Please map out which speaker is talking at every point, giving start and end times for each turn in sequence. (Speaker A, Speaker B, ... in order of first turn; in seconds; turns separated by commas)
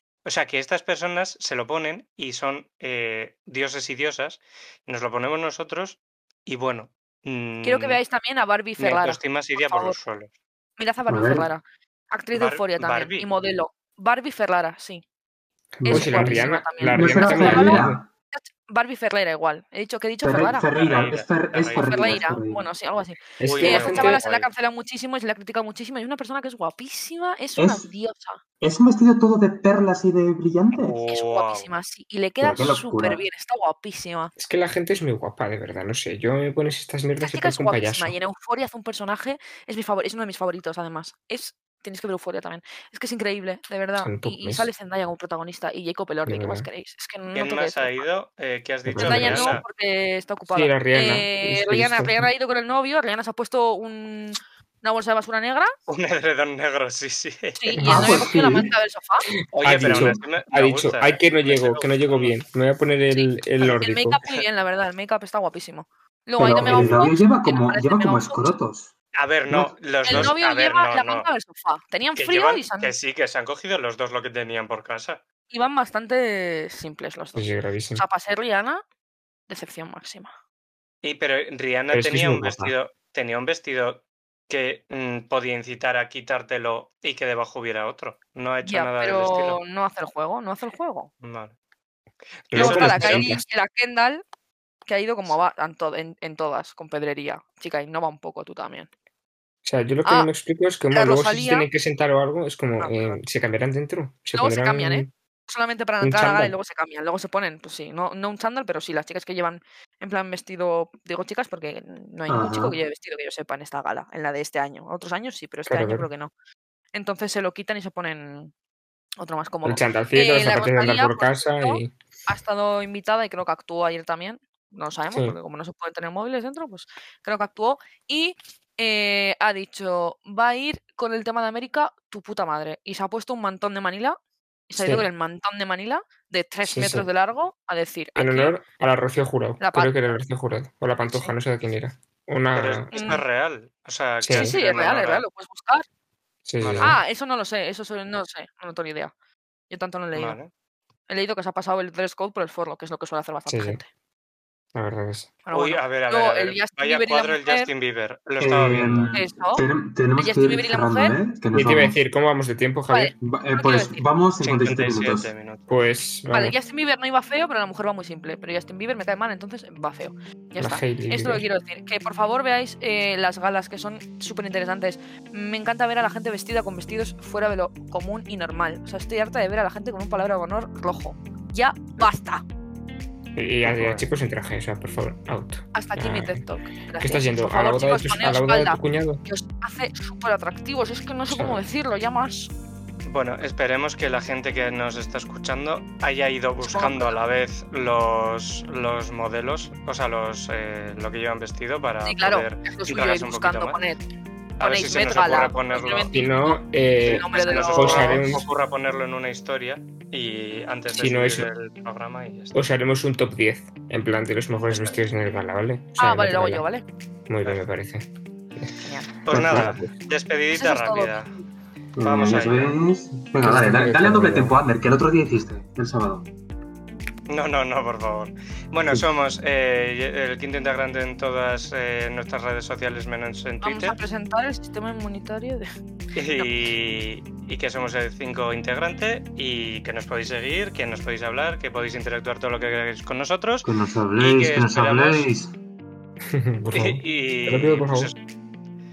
Speaker A: 0.2-8.0, Speaker B: 7.6-10.0, Speaker A: 8.8-10.3, Speaker B: 10.8-15.0, Speaker C: 11.1-11.5, Speaker A: 12.3-13.3, Speaker D: 15.8-18.0, Speaker C: 15.8-18.1, Speaker B: 15.9-20.7, Speaker C: 20.2-22.7, Speaker A: 20.8-22.2, Speaker B: 21.8-28.4, Speaker D: 23.4-24.2, Speaker A: 23.4-24.5, Speaker C: 27.6-27.9, Speaker C: 28.6-30.9, Speaker A: 30.7-31.7, Speaker B: 31.1-34.3, Speaker C: 32.4-33.2, Speaker D: 34.4-38.1, Speaker B: 37.2-48.1, Speaker D: 44.0-44.7, Speaker D: 46.3-46.7, Speaker A: 47.4-49.6, Speaker D: 48.9-49.6, Speaker B: 49.0-55.7, Speaker D: 50.5-52.3, Speaker A: 55.9-57.8, Speaker B: 57.6-59.3, Speaker D: 57.8-58.3, Speaker C: 57.9-58.7, Speaker A: 59.5-62.4, Speaker D: 59.6-64.2, Speaker C: 59.8-60.2, Speaker B: 63.1-68.6, Speaker C: 66.4-68.9, Speaker D: 66.6-67.0, Speaker A: 69.2-71.3, Speaker C: 69.5-69.7, Speaker B: 70.0-72.9, Speaker A: 72.2-75.2, Speaker B: 75.5-78.8, Speaker D: 77.4-78.0, Speaker B: 79.5-80.3, Speaker A: 81.0-89.6, Speaker D: 81.9-82.7, Speaker B: 88.6-91.1, Speaker A: 91.2-91.5, Speaker A: 92.5-93.3, Speaker D: 92.5-93.4, Speaker B: 92.5-94.2, Speaker B: 94.9-98.9, Speaker D: 99.6-105.1, Speaker B: 100.9-101.7, Speaker B: 102.8-103.2, Speaker B: 104.3-116.3, Speaker D: 106.0-106.5, Speaker C: 112.3-112.8, Speaker D: 115.7-116.1, Speaker B: 116.9-118.5, Speaker B: 119.2-134.2, Speaker D: 119.7-121.9, Speaker D: 125.1-125.4, Speaker B: 134.7-138.6, Speaker D: 134.8-135.1, Speaker D: 136.6-137.1, Speaker D: 138.2-143.2, Speaker B: 139.6-140.1, Speaker B: 141.0-141.3, Speaker A: 142.5-145.3, Speaker B: 142.9-143.2, Speaker D: 144.2-144.5, Speaker B: 144.3-145.8, Speaker D: 146.5-147.0, Speaker A: 146.6-147.0, Speaker B: 146.8-149.1, Speaker B: 149.7-150.4, Speaker A: 150.1-150.5, Speaker B: 151.1-153.9, Speaker D: 153.5-153.8, Speaker D: 154.8-155.3, Speaker B: 155.4-157.7, Speaker A: 155.5-159.2, Speaker C: 158.4-162.0, Speaker B: 159.1-159.6, Speaker B: 160.2-161.2, Speaker D: 161.5-163.1, Speaker B: 162.9-164.0, Speaker C: 163.2-165.3, Speaker A: 164.4-165.6, Speaker D: 165.7-166.6, Speaker B: 166.3-182.4, Speaker D: 170.6-171.4, Speaker D: 183.3-186.4, Speaker A: 183.7-184.1, Speaker B: 185.7-192.5, Speaker D: 187.0-189.2, Speaker D: 191.3-191.6, Speaker A: 193.1-203.8, Speaker B: 196.6-197.2, Speaker B: 202.1-204.0, Speaker A: 204.6-206.1, Speaker B: 204.6-208.3, Speaker D: 206.1-208.5, Speaker A: 207.3-212.7, Speaker D: 210.9-211.5, Speaker D: 212.5-216.7, Speaker A: 214.7-215.0, Speaker B: 216.0-216.8, Speaker D: 217.3-218.7, Speaker B: 218.8-219.1, Speaker A: 219.2-221.3, Speaker C: 219.3-219.7, Speaker D: 219.3-219.9, Speaker B: 220.5-221.2, Speaker C: 222.0-226.3, Speaker A: 222.0-222.8, Speaker D: 223.4-224.6, Speaker A: 227.3-234.0, Speaker B: 233.6-235.7, Speaker A: 236.2-245.3, Speaker C: 243.6-245.5, Speaker D: 246.3-248.1, Speaker A: 246.7-248.2